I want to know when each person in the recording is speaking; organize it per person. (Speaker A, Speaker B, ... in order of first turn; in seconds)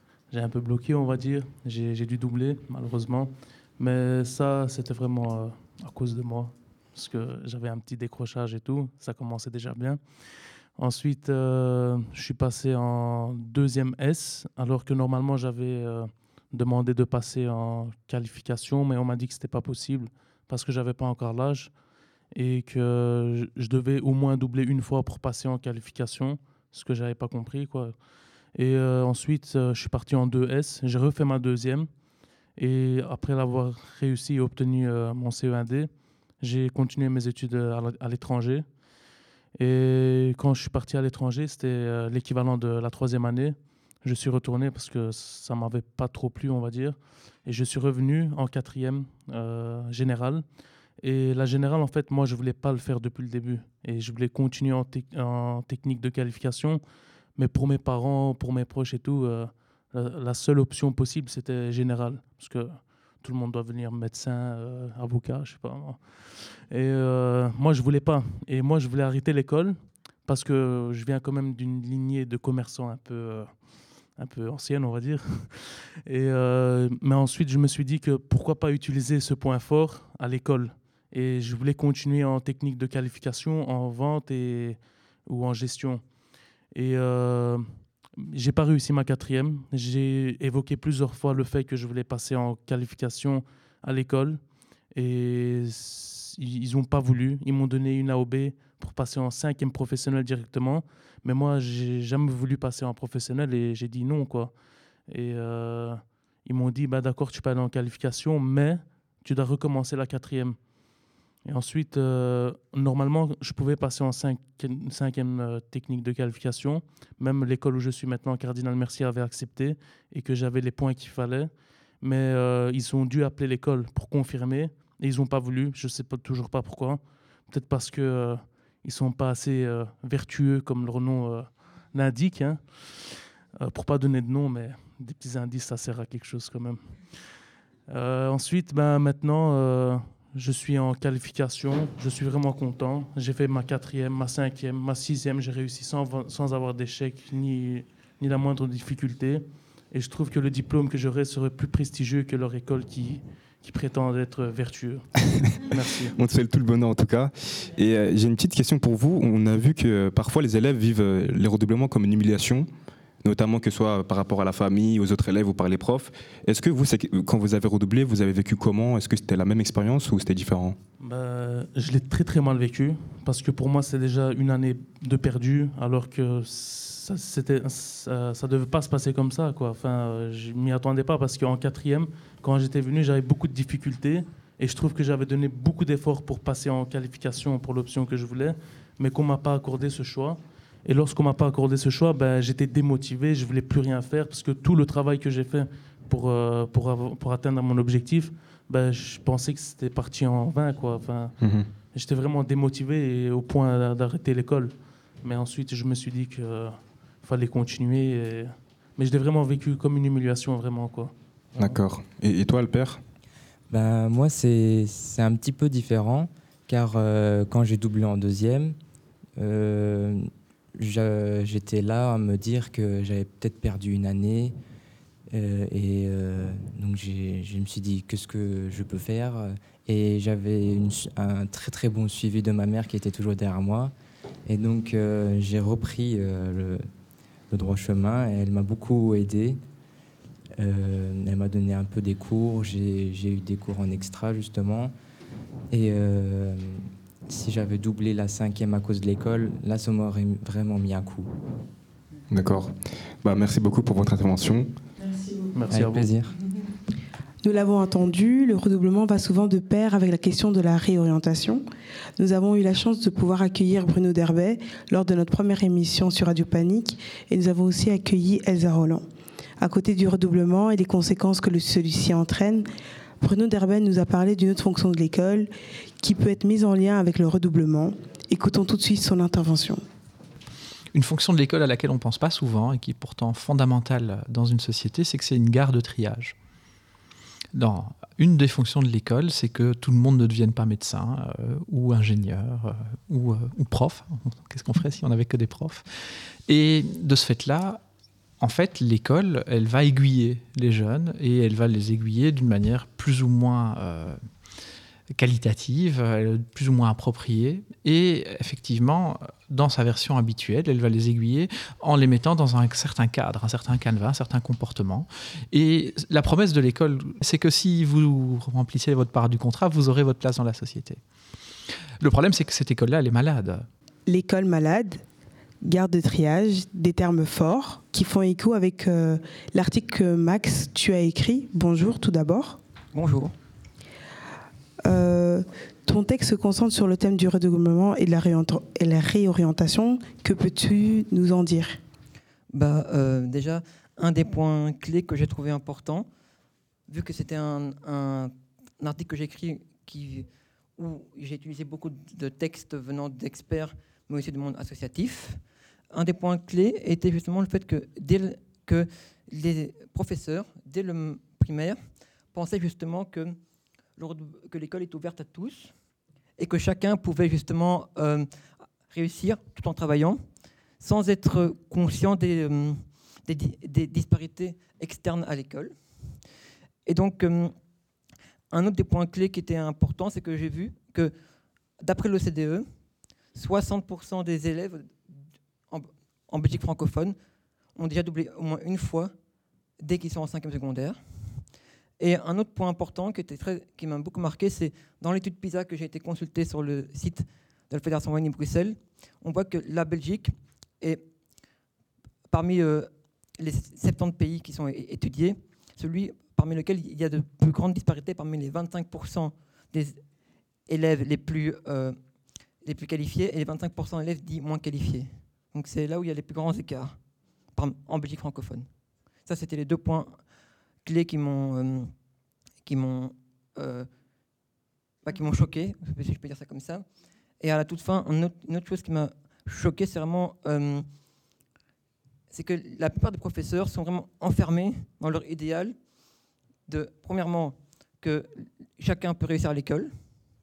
Speaker A: 0.3-10.0, 10.8-21.7, 22.3-27.9, 28.5-31.9, 32.6-38.6, 39.6-50.4, 51.0-56.8, 57.4-66.0, 66.7-73.6, 74.2-86.0, 86.7-94.4, 94.9-104.5, 105.1-110.6, 111.4-132.9, 133.6-136.9, 137.9-155.1, 155.7-156.2, 171.0-201.3, 201.9-211.8, 255.5-256.1
Speaker B: 156.1-162.7, 163.2-170.8, 201.4-201.7, 211.6-213.0, 252.3-254.7
Speaker C: 213.7-218.8, 219.4-224.5, 225.3-233.9, 234.5-236.8, 237.5-239.6, 240.6-244.9, 245.7-251.3, 255.7-256.3
Speaker D: 257.4-261.6, 262.2-269.0, 269.6-272.6, 273.2-279.8, 324.1-325.0, 325.6-332.6, 334.8-341.8
Speaker E: 280.9-286.3, 287.5-295.9, 296.4-297.8, 298.4-304.2, 305.1-321.0, 322.0-323.7
Speaker F: 332.9-333.3, 342.5-346.1, 346.9-355.4, 355.9-361.8, 362.3-363.4, 364.0-365.7, 366.4-368.3, 368.9-370.2, 370.8-375.7, 376.9-377.5, 378.5-381.1, 381.8-382.7, 383.3-385.1, 385.7-387.1, 387.7-389.1, 389.8-391.0, 392.0-401.0, 402.3-410.0, 410.7-412.0, 412.6-416.9, 417.5-418.7, 419.2-420.2, 420.8-421.9, 422.6-423.9, 425.0-426.8, 427.4-430.8, 432.3-435.7, 436.7-439.9